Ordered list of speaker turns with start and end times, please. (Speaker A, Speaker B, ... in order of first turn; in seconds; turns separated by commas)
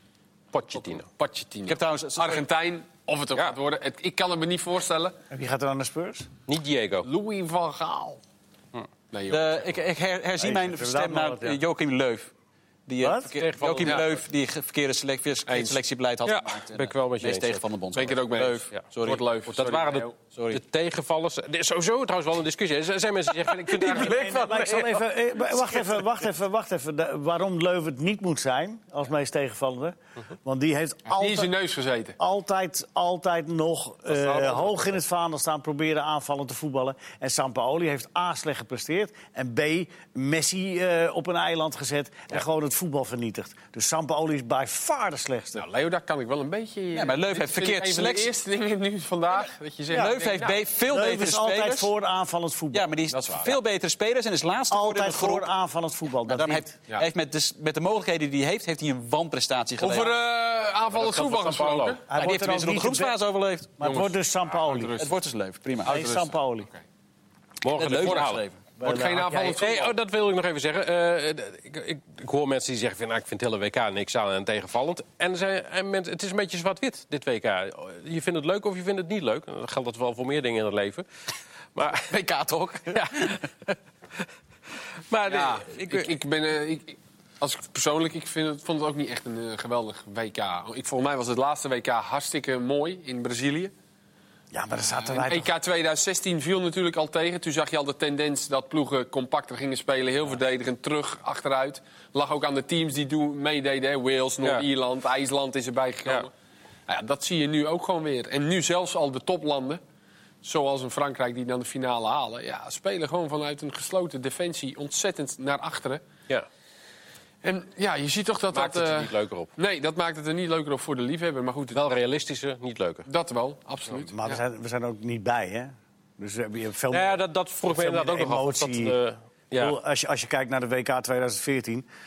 Speaker A: 0.5-1.1, Speaker B: 0.7-5.2, Speaker C: 1.7-2.4, Speaker D: 5.3-6.3, Speaker A: 6.5-7.1, Speaker B: 7.0-8.2, Speaker B: 9.1-9.7, Speaker C: 9.3-12.3, Speaker D: 10.4-11.6, Speaker C: 12.9-19.2, Speaker D: 13.0-13.3, Speaker A: 13.3-14.2, Speaker B: 15.5-15.8, Speaker A: 16.3-17.6, Speaker B: 17.9-20.1, Speaker A: 19.5-24.3, Speaker C: 20.3-20.6, Speaker C: 23.4-25.5, Speaker D: 23.9-31.5, Speaker B: 31.1-32.2, Speaker D: 32.2-45.6, Speaker A: 34.1-34.7, Speaker B: 45.5-50.6, Speaker C: 46.9-48.3, Speaker D: 49.9-50.2, Speaker C: 49.9-51.9, Speaker D: 50.9-53.0, Speaker C: 52.7-55.5, Speaker B: 53.1-53.6, Speaker D: 54.7-56.7, Speaker C: 56.3-60.1, Speaker B: 59.8-62.0, Speaker A: 60.9-62.0, Speaker D: 62.1-63.2, Speaker C: 62.1-63.8, Speaker D: 63.8-65.0, Speaker B: 63.8-65.1, Speaker C: 65.0-66.0, Speaker D: 65.8-66.7, Speaker B: 65.8-66.8, Speaker A: 67.6-68.4, Speaker C: 67.7-68.6, Speaker D: 68.8-69.6, Speaker B: 68.8-70.0, Speaker A: 69.6-81.0, Speaker A: 81.8-82.1, Speaker C: 82.0-83.4, Speaker A: 82.9-83.8, Speaker A: 85.1-86.1, Speaker B: 85.3-93.7, Speaker D: 94.5-95.5, Speaker B: 94.9-106.3, Speaker B: 106.9-109.8, Speaker B: 110.4-116.0, Speaker B: 117.4-121.8, Speaker A: 118.5-119.5, Speaker A: 121.7-123.1, Speaker B: 123.1-124.4, Speaker D: 124.0-129.0, Speaker A: 126.9-129.8, Speaker D: 129.6-131.9